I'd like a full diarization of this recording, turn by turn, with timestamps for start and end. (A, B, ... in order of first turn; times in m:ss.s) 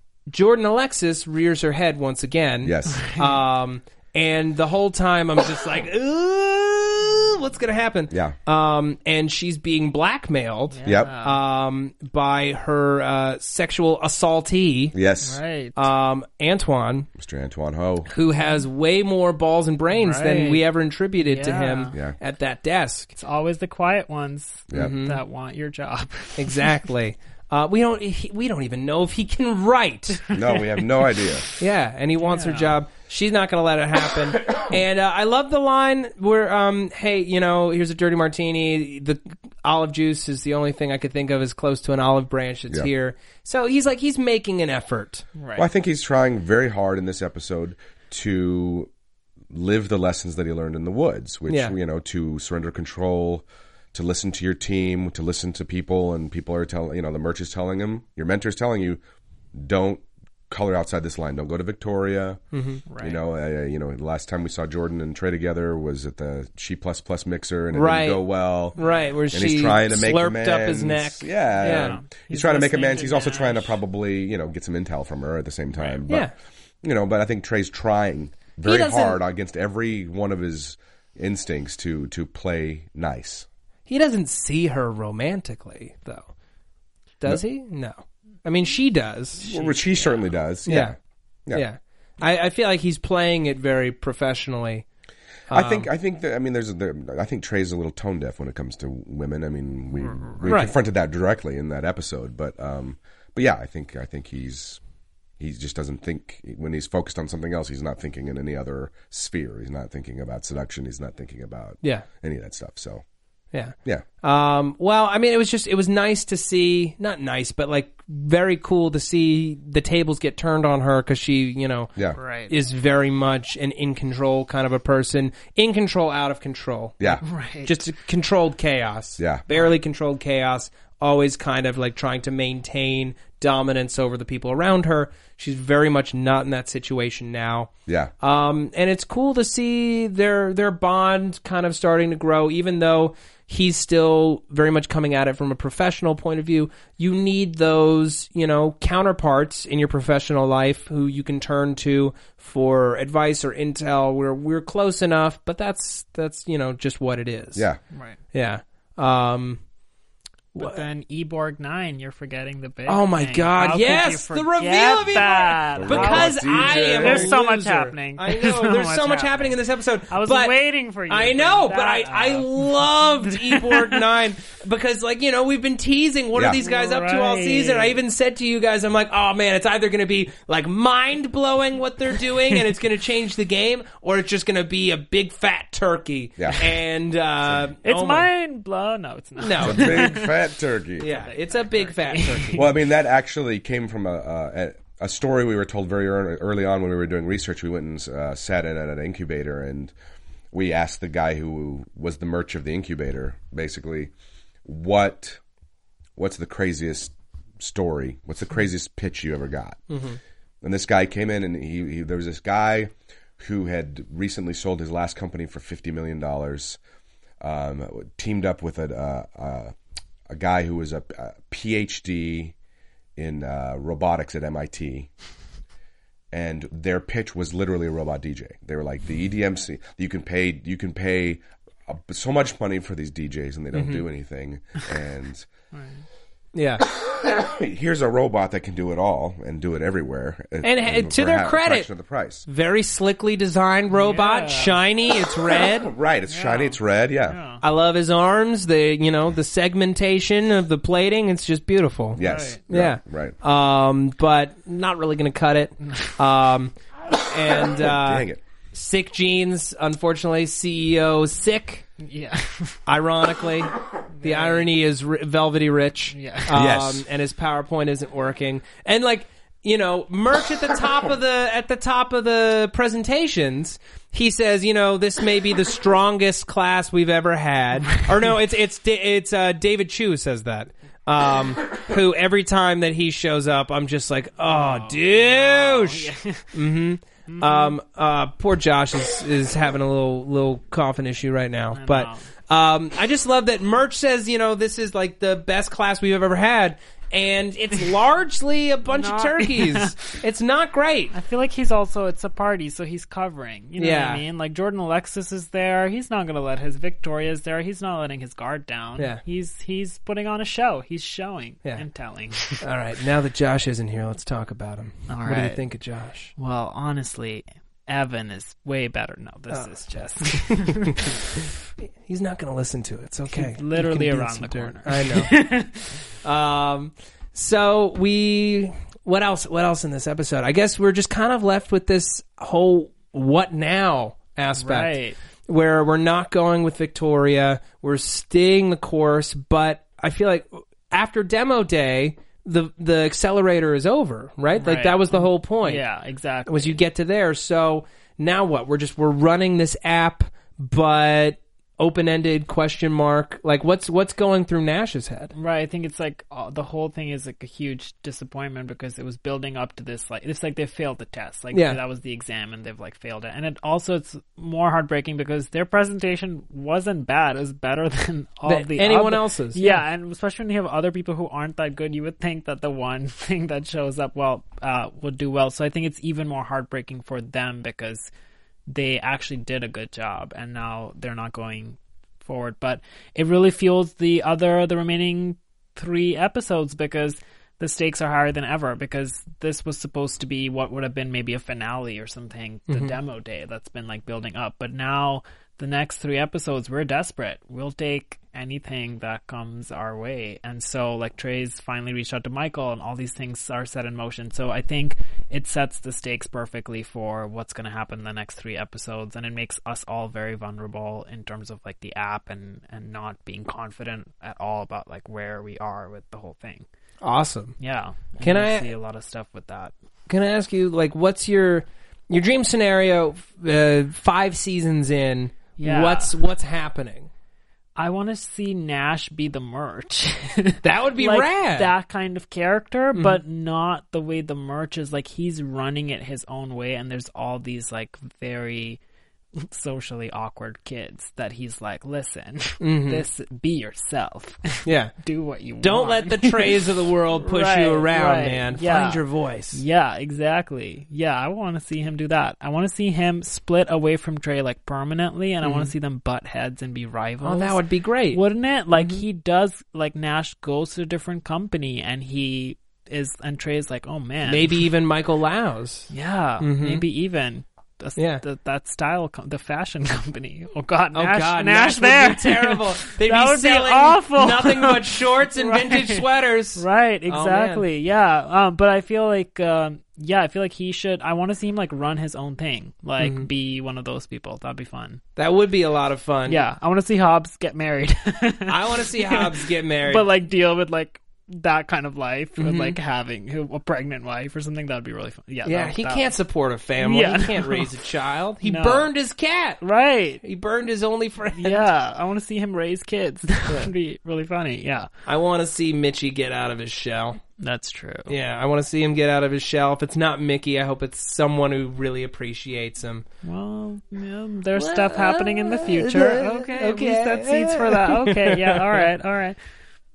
0:00.3-0:15.0 A
0:02.6-0:03.0 B
0:02.9-0:03.4 C
0:08.1-0:08.4 B
0:10.7-0:11.4 C
0:10.8-0:11.1 B
0:14.9-0:15.4 B
0:15.2-0:15.8 C
0:15.8-0:17.1 A
0:17.2-0:18.1 B
0:18.1-0:23.1 A
0:20.0-0:20.6 C
0:21.2-0:21.9 C
0:23.2-0:26.7 C
0:24.7-0:25.2 A
0:26.4-0:30.2 A
0:30.3-0:31.5 B
0:31.6-0:45.2 A
0:32.2-0:32.7 C
0:45.4-0:45.7 C
0:45.6-0:48.9 B
0:49.5-0:59.0 B
0:51.5-0:51.7 A
0:59.5-1:02.4 B
1:02.5-1:02.8 A
1:02.9-1:03.2 C
1:03.0-1:08.8 B
1:07.7-1:12.0 A
1:08.8-1:09.1 C
1:09.3-1:16.3 B
1:11.6-1:13.8 C
1:15.8-1:16.0 C
1:16.1-1:16.3 A
1:16.8-1:23.5 B
1:18.6-1:19.2 A
1:23.9-1:26.3 A
1:27.2-1:29.5 A
1:29.4-1:30.2 C
1:29.5-1:30.9 B
1:30.6-1:31.0 A
1:31.5-1:34.9 A
1:35.5-1:35.9 A
1:35.5-1:44.8 B
1:40.0-1:40.4 C
1:40.5-1:40.7 A
1:45.4-1:53.0 B
1:53.5-2:37.7 A
2:02.2-2:02.5 C
2:07.2-2:07.8 C
2:09.2-2:09.4 B
2:17.9-2:18.1 B
2:37.9-2:38.2 C
2:38.3-2:39.6 A
2:40.6-2:40.8 A
2:40.6-2:54.0 C
2:42.9-2:50.6 A
2:45.8-2:47.3 B
2:51.1-3:08.3 A
2:56.3-2:56.6 B
2:56.6-2:58.0 C
3:06.4-3:06.6 B
3:07.8-3:10.4 C
3:09.4-3:10.2 A
3:09.6-3:11.2 B
3:11.0-3:12.6 A
3:11.1-3:12.6 C
3:12.5-3:19.9 B
3:20.5-3:24.1 B
3:24.6-3:25.4 B
3:26.2-3:29.9 B
3:29.9-3:30.2 A
3:30.6-3:36.8 B
3:37.4-3:39.8 B
3:40.3-3:42.6 B
3:43.2-3:45.1 B
3:46.3-3:55.5 B
3:53.7-3:54.0 A
3:55.7-3:56.0 C
3:56.6-3:56.9 A
3:56.9-4:02.5 B
4:00.6-4:01.9 A
4:02.5-4:05.9 A
4:03.9-4:04.8 C
4:05.8-4:07.4 B
4:06.3-4:07.6 C
4:07.6-4:21.9 A
4:12.2-4:13.4 B
4:12.2-4:12.6 C
4:17.8-4:18.4 B
4:22.0-4:22.8 C
4:22.9-5:01.2 A
4:24.1-4:24.6 C
4:26.1-4:26.5 C
4:26.5-4:27.0 B
4:44.4-4:46.5 C
4:47.3-4:47.8 C
4:51.7-4:52.2 C
4:58.9-5:00.2 C
5:01.1-5:12.6 C
5:03.8-5:04.2 A
5:12.6-5:16.3 A
5:15.1-5:15.6 C
5:16.4-5:21.4 C
5:20.3-5:20.7 A
5:22.0-5:25.5 A
5:23.3-5:26.0 C
5:26.2-5:35.0 A
5:34.6-5:35.2 C
5:35.5-5:45.8 A
5:44.6-5:46.8 C
5:46.5-5:55.3 A
5:55.3-6:18.1 C
6:01.5-6:01.8 A
6:08.5-6:09.8 A
6:18.7-6:56.7 C
6:57.0-6:57.6 A
6:57.6-6:59.7 C
6:58.2-6:58.7 A
7:00.1-7:07.1 A
7:05.6-7:06.2 C
7:07.8-7:18.8 C
7:10.6-7:11.7 A
7:12.9-7:13.2 A
7:19.4-7:44.6 C
7:22.6-7:23.0 A
7:24.6-7:24.9 A
7:25.6-7:29.6 A
7:35.4-7:35.7 A
7:37.2-7:38.2 A
7:38.8-7:39.0 A
7:44.2-7:46.8 A
7:45.9-8:05.0 C
7:48.0-7:48.2 A
7:50.9-7:57.6 A
8:03.0-8:03.3 A
8:05.2-8:06.4 A
8:06.3-8:16.1 C
8:08.5-8:10.1 A
8:12.4-8:12.8 A
8:15.4-8:19.6 A
8:16.8-8:17.8 C
8:18.4-8:18.9 C
8:19.6-8:20.2 C
8:20.2-8:21.7 A
8:21.4-8:24.9 C
8:25.1-8:27.2 A
8:27.4-8:28.1 C
8:28.1-8:33.0 A
8:33.2-8:39.4 C
8:34.6-8:38.8 A